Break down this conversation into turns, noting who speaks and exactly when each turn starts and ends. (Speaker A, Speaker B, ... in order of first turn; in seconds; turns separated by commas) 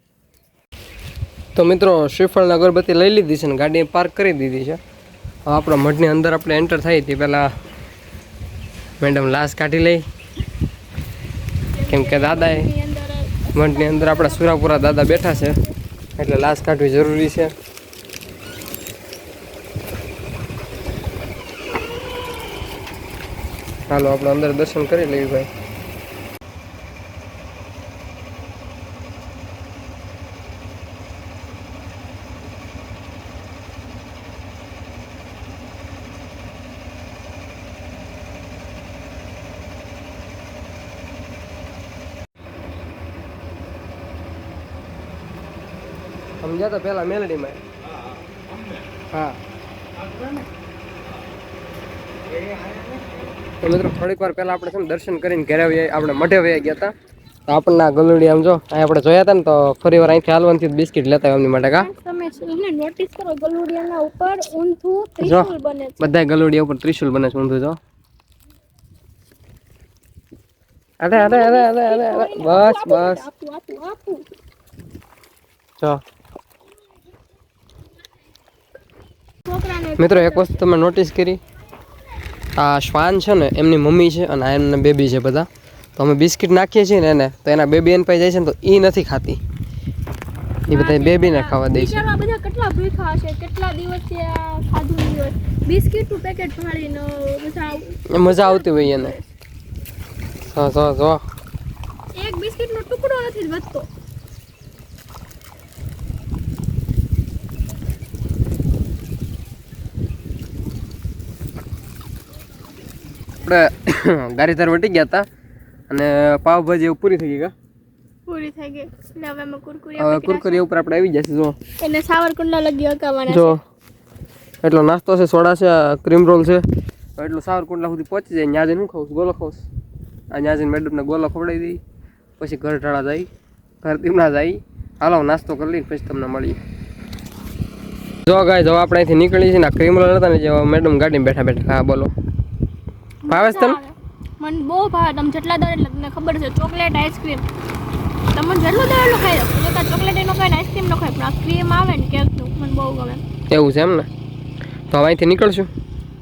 Speaker A: 1.5-4.8, Speaker A: 5.5-7.5, Speaker A: 9.0-10.0, Speaker B: 11.7-15.7, Speaker A: 11.9-12.7, Speaker A: 13.5-15.6, Speaker A: 16.2-17.5, Speaker A: 23.9-25.5, Speaker A: 46.4-47.6, Speaker A: 53.6-56.9, Speaker A: 57.5-61.9, Speaker B: 61.8-66.1, Speaker A: 65.2-67.8, Speaker A: 71.0-73.2, Speaker B: 71.1-74.2, Speaker B: 79.5-80.6, Speaker A: 80.0-81.4, Speaker A: 82.6-89.4, Speaker B: 90.7-99.3, Speaker A: 90.7-92.0, Speaker A: 98.2-99.2, Speaker A: 100.5-101.2, Speaker B: 102.2-103.9, Speaker A: 113.4-115.2, Speaker A: 115.9-117.5, Speaker B: 118.3-120.6, Speaker A: 120.0-121.5, Speaker B: 121.8-123.5, Speaker A: 123.3-123.5, Speaker A: 124.6-126.6, Speaker A: 127.2-129.6, Speaker A: 130.3-131.8, Speaker A: 132.4-133.3, Speaker A: 133.8-136.6, Speaker A: 138.3-142.1, Speaker B: 143.2-147.4, Speaker A: 143.3-143.8, Speaker B: 148.3-153.2, Speaker A: 153.5-154.1, Speaker A: 154.9-155.7